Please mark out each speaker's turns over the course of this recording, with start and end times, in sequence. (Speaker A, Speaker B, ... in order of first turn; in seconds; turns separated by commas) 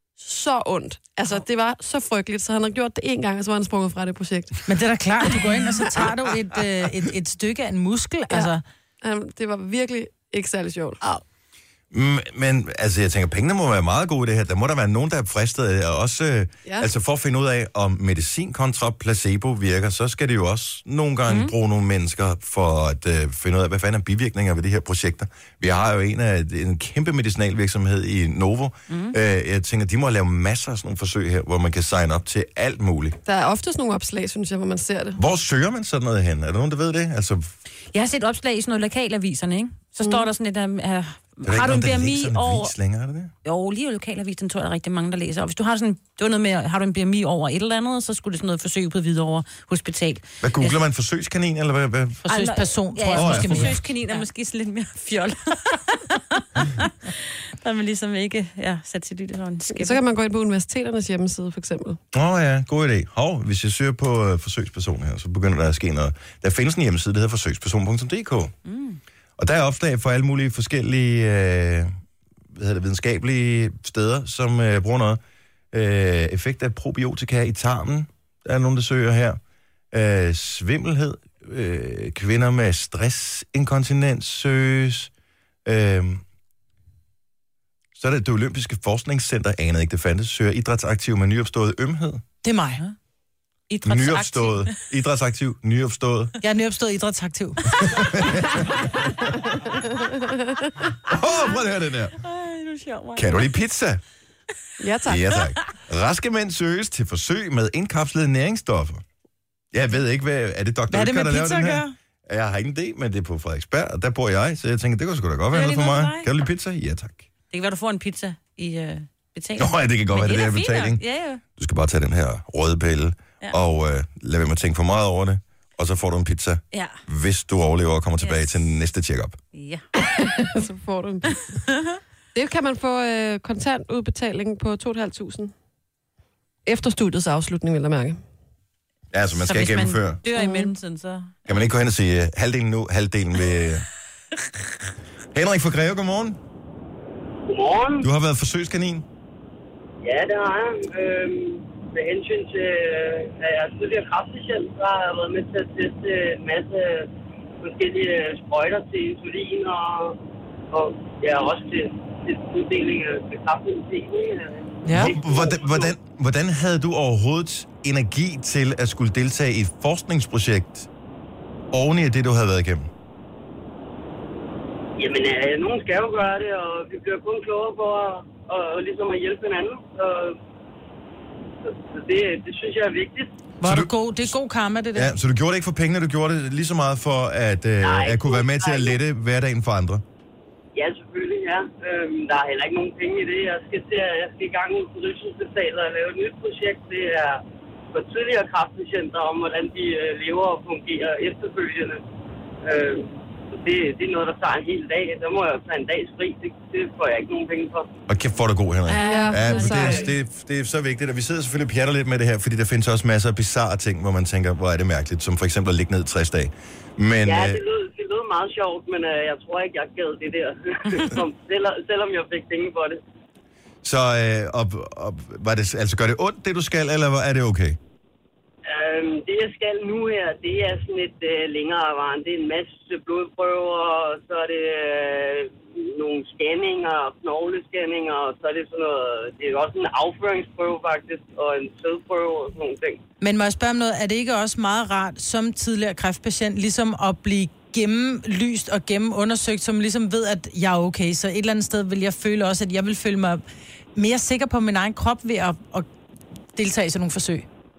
Speaker A: 0.2-4.6, Speaker B: 4.7-8.6, Speaker A: 8.3-11.0, Speaker C: 11.9-33.2, Speaker D: 21.3-21.5, Speaker D: 28.9-29.1, Speaker A: 33.3-35.2, Speaker C: 35.2-37.5, Speaker D: 37.9-42.7, Speaker A: 40.0-40.3, Speaker C: 41.5-43.3, Speaker D: 43.5-50.8, Speaker C: 50.4-52.2, Speaker B: 52.2-54.2, Speaker D: 52.3-60.0, Speaker C: 53.1-53.8, Speaker A: 59.7-62.0, Speaker C: 62.1-68.5, Speaker D: 68.7-69.0, Speaker C: 69.4-71.9, Speaker C: 72.5-75.2, Speaker C: 75.7-79.4, Speaker C: 79.9-85.1, Speaker C: 85.7-86.2, Speaker C: 88.0-92.2, Speaker B: 92.4-92.8, Speaker D: 93.7-94.8, Speaker C: 93.8-96.4, Speaker B: 96.4-98.0, Speaker C: 97.8-98.7, Speaker A: 100.0-100.6, Speaker C: 101.1-102.2, Speaker D: 102.2-103.5, Speaker C: 103.2-104.0, Speaker A: 104.8-105.4, Speaker C: 105.1-109.0, Speaker C: 109.7-117.3, Speaker B: 110.9-111.9, Speaker D: 115.5-116.5, Speaker D: 117.5-121.4, Speaker C: 119.6-121.0, Speaker C: 121.6-129.4, Speaker D: 126.7-127.0, Speaker D: 129.5-129.8, Speaker A: 130.1-131.4, Speaker D: 131.7-132.0, Speaker A: 132.3-135.5, Speaker A: 136.7-138.2, Speaker C: 139.1-140.2, Speaker D: 139.4-141.4, Speaker A: 140.3-140.7, Speaker C: 141.5-143.9, Speaker C: 145.3-146.4, Speaker E: 147.5-148.1, Speaker C: 148.0-149.1, Speaker E: 150.0-157.1, Speaker E: 157.6-160.2, Speaker E: 160.7-165.9, Speaker B: 164.8-165.2, Speaker C: 164.9-170.9, Speaker C: 171.7-172.9, Speaker E: 175.0-180.4, Speaker E: 181.6-183.3, Speaker B: 183.6-185.1, Speaker C: 183.6-184.3, Speaker C: 184.9-190.0, Speaker E: 187.8-189.0, Speaker E: 190.8-202.0, Speaker E: 202.6-207.9, Speaker C: 208.1-217.6, Speaker A: 208.9-210.1, Speaker E: 217.2-223.0, Speaker C: 223.8-227.8, Speaker E: 228.7-243.0, Speaker B: 243.2-253.4, Speaker B: 254.0-255.9, Speaker B: 256.6-257.5